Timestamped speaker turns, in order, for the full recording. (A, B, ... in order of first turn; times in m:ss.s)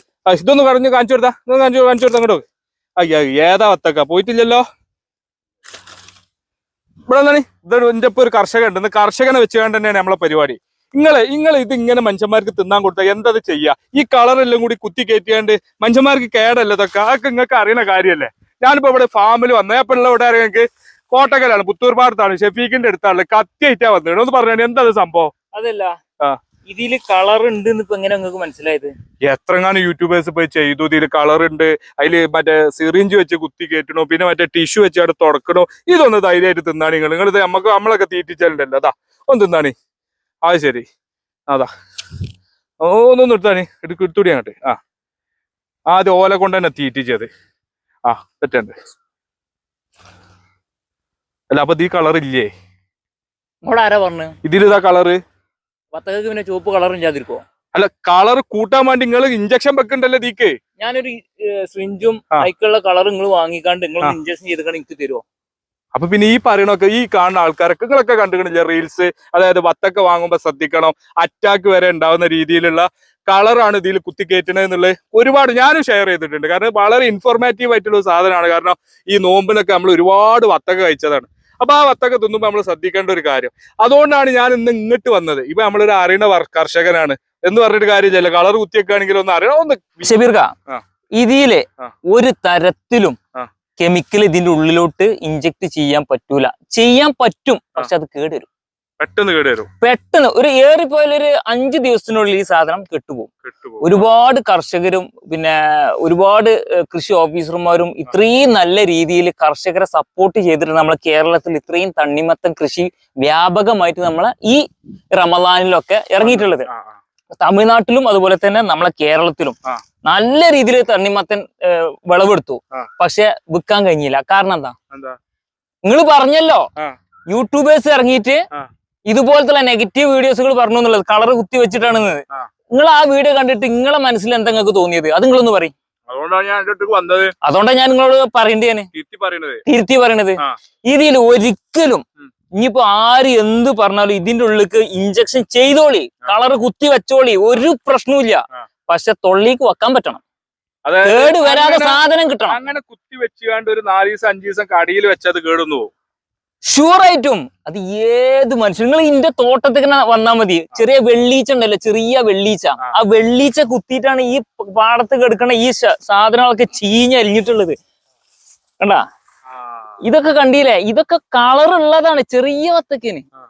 0:00.3-0:02.4 A
0:03.0-0:04.6 A
0:07.1-0:25.3 A
0:25.5-0:26.0 B
0:26.7-0:28.9 B
0:29.2-0:39.7 A
0:40.4-0:40.8 A
0:42.8-0:44.8 A
0:45.9-0:47.3 A
0:48.0-0:48.7 A
0:51.5-0:52.5 A
0:53.6-0:54.4 B
0:54.4-0:55.2 A
0:55.9-0:57.4 B
0:57.7-1:00.6 A
1:00.8-1:05.2 B
1:05.9-1:30.1 A
1:30.0-1:30.5 B
1:31.2-1:33.2 B
1:33.8-1:38.5 B
1:39.0-1:39.7 A
1:39.8-1:43.3 B
1:43.4-1:44.1 A
1:43.8-1:56.7 B
1:56.2-1:57.0 A
1:57.4-2:04.8 B
2:04.9-2:05.2 A
2:05.8-2:06.7 B
2:07.3-2:08.5 B
2:09.1-2:15.7 B
2:16.1-2:17.3 A
2:17.4-2:18.9 B
2:18.9-2:19.6 A
2:19.7-2:22.0 B
2:22.6-2:30.2 B
2:30.8-2:35.9 A
2:31.0-2:32.6 B
2:36.7-2:47.8 B
2:49.5-2:50.0 A
2:50.0-2:53.2 B